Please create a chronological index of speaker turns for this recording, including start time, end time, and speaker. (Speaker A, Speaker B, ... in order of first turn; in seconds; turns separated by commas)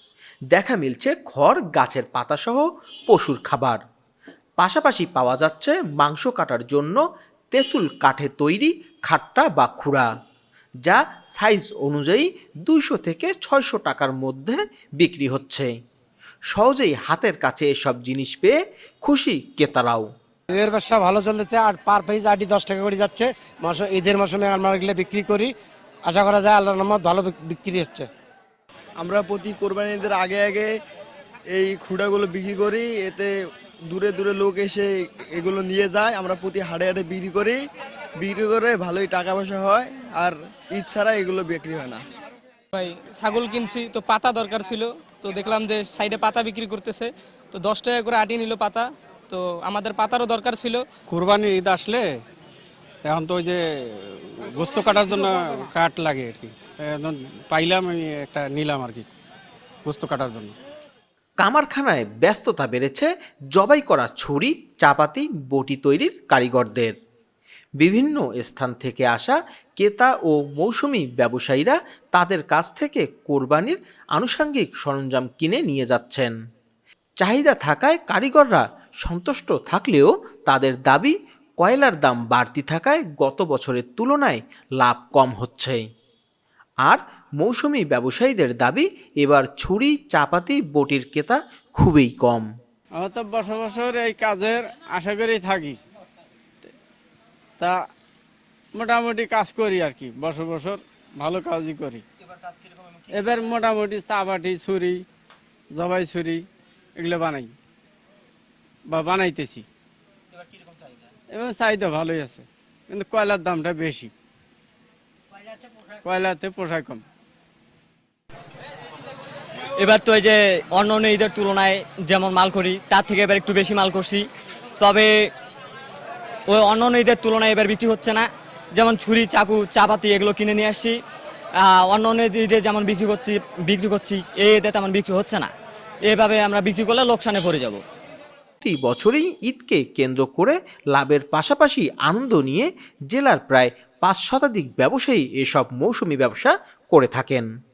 Speaker A: 0.5-3.8, Speaker A: 4.6-7.0, Speaker A: 7.5-10.1, Speaker A: 10.8-15.7, Speaker A: 16.5-20.1, Speaker B: 20.5-25.5, Speaker B: 26.1-28.1, Speaker C: 29.0-30.7, Speaker C: 31.5-33.3, Speaker C: 33.9-37.6, Speaker C: 38.2-42.0, Speaker D: 42.7-50.9, Speaker E: 51.1-52.1, Speaker E: 53.0-59.1, Speaker E: 59.9-60.6, Speaker A: 61.4-67.0, Speaker A: 67.8-76.3, Speaker A: 77.2-85.8, Speaker A: 86.9-92.5, Speaker E: 93.0-95.8, Speaker E: 98.8-102.0, Speaker E: 103.1-105.0, Speaker E: 105.8-106.5, Speaker E: 107.0-107.5, Speaker E: 108.9-109.7, Speaker E: 111.3-114.1, Speaker E: 116.0-117.0, Speaker F: 119.8-124.3, Speaker F: 124.8-125.3, Speaker F: 126.5-131.0, Speaker F: 131.6-135.5, Speaker F: 136.1-137.8, Speaker A: 138.6-147.5